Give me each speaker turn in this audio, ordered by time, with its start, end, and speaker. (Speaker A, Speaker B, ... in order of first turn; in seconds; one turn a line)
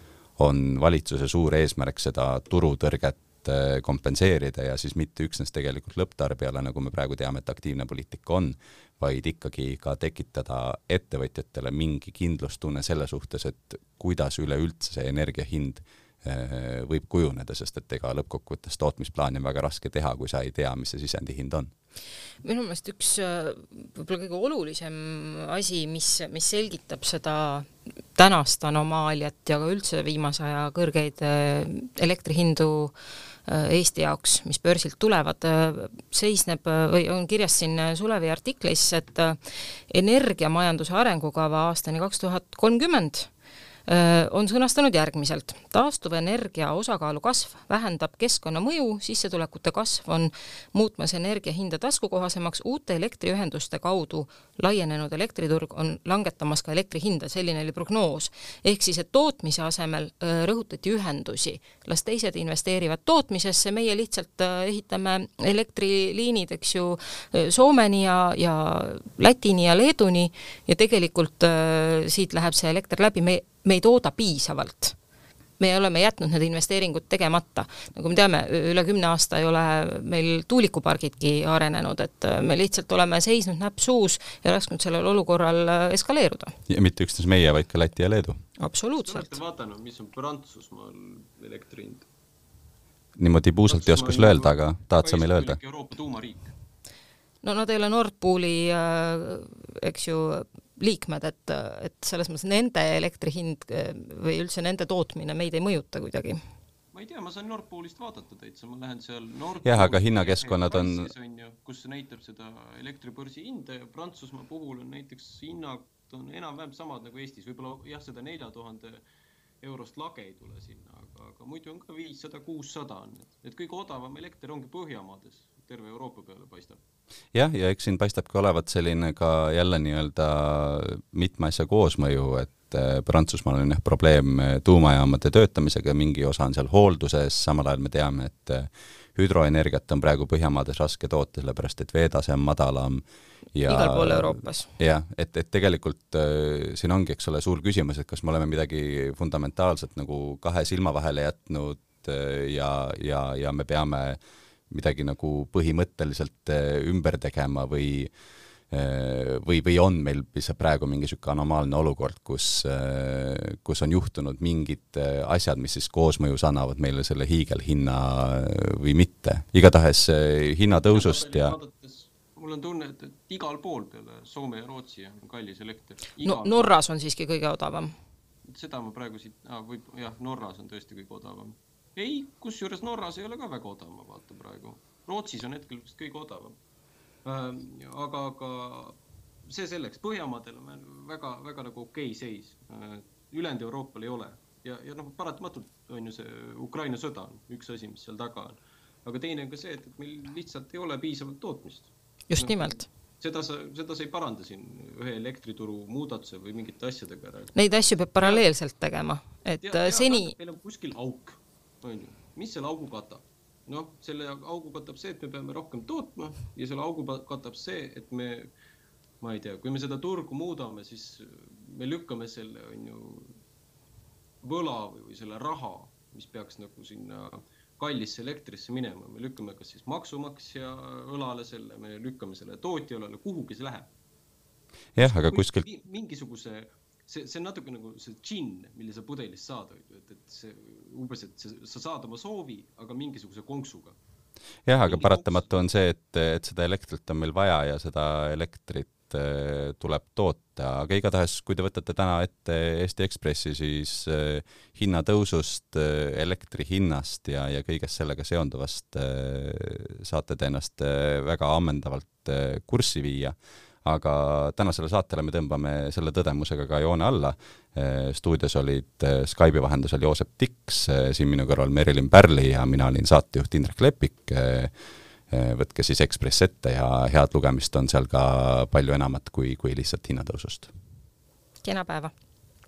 Speaker A: 0.4-21.7
Speaker B: 22.4-33.0
Speaker B: 33.5-39.4
Speaker B: 39.9-43.3
Speaker B: 43.9-75.0
Speaker B: 75.6-86.6
Speaker A: 86.7-88.4
Speaker B: 88.6-89.4
Speaker C: 89.0-92.1
Speaker A: 93.2-95.6
Speaker C: 93.7-96.5
Speaker B: 97.4-106.4
Speaker C: 106.9-119.0
Speaker A: 109.6-111.1
Speaker C: 119.6-126.8
Speaker A: 127.3-143.0
Speaker A: 143.5-158.1
Speaker B: 143.7-144.7
Speaker A: 158.7-171.6
Speaker C: 170.9-176.7
Speaker B: 176.2-177.9
Speaker C: 178.5-186.6
Speaker C: 187.2-207.5
Speaker B: 202.3-202.9
Speaker B: 207.6-210.3
Speaker C: 209.6-218.5
Speaker C: 219.2-223.4
Speaker C: 224.4-233.9
Speaker A: 235.0-235.7
Speaker C: 235.0-244.0
Speaker A: 244.7-274.7
Speaker C: 244.8-245.5
Speaker A: 275.3-280.7
Speaker B: 281.6-282.1